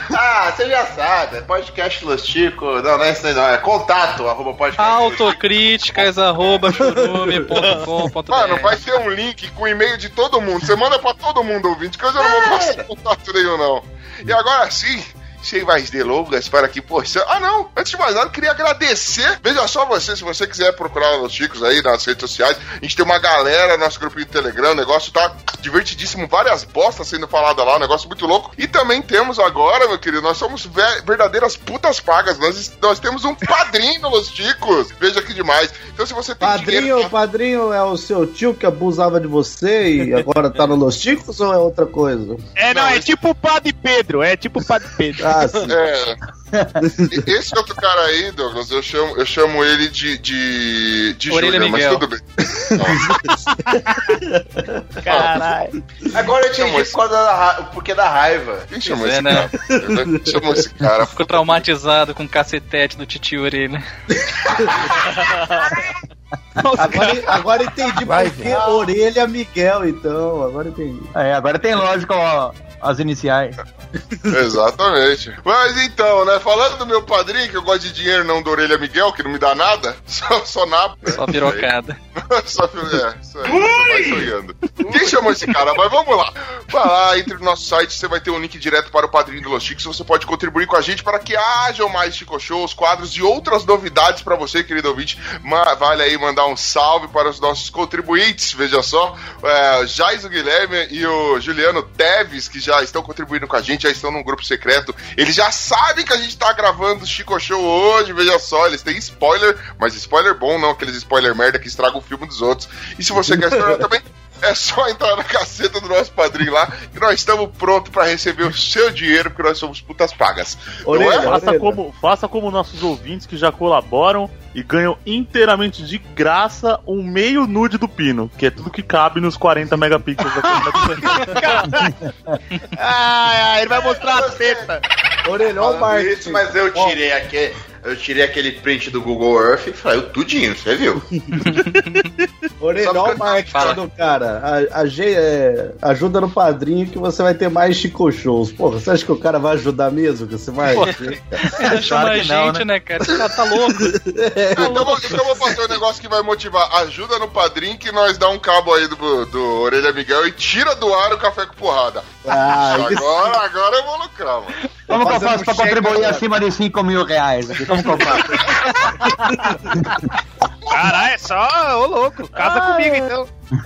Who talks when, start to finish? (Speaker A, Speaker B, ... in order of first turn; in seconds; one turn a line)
Speaker A: 0.1-5.4
Speaker B: 4.8-8.8
Speaker C: 6.8-7.7
Speaker D: 8.3-37.1
Speaker A: 12.2-12.8
Speaker C: 36.4-42.4
Speaker E: 42.6-45.3
Speaker D: 42.7-43.1
Speaker C: 45.2-45.7
Speaker D: 45.7-46.2
Speaker C: 46.8-47.1
Speaker D: 47.1-53.1
Speaker B: 51.3-52.1
Speaker C: 52.8-54.8
Speaker E: 53.9-54.2
Speaker E: 55.0-55.7
Speaker D: 55.1-55.5
Speaker A: 56.1-58.7
Speaker D: 56.5-57.0
Speaker D: 58.7-61.7
Speaker B: 58.8-59.5
Speaker C: 59.8-60.6
Speaker B: 61.1-63.8
Speaker E: 66.6-67.4
Speaker C: 66.8-71.1
Speaker A: 68.4-68.9
Speaker F: 71.2-73.6
Speaker D: 74.3-81.7
Speaker B: 81.1-82.0
Speaker D: 82.2-121.4
Speaker A: 83.4-83.8
Speaker A: 84.8-85.2
Speaker C: 113.2-113.9
Speaker C: 120.9-121.8
Speaker G: 121.2-131.3
Speaker E: 131.3-131.9
Speaker E: 132.8-134.8
Speaker A: 133.7-134.7
Speaker C: 135.2-137.0
Speaker A: 135.6-141.0
Speaker B: 141.4-142.1
Speaker C: 142.6-151.4
Speaker A: 142.8-143.8
Speaker B: 143.5-143.8
Speaker B: 150.6-153.9
Speaker F: 151.7-152.6
Speaker C: 153.7-155.4
Speaker D: 154.5-164.6
Speaker C: 162.2-163.4
Speaker F: 164.9-168.6
Speaker C: 164.9-166.2
Speaker E: 170.7-173.3
Speaker G: 172.4-172.9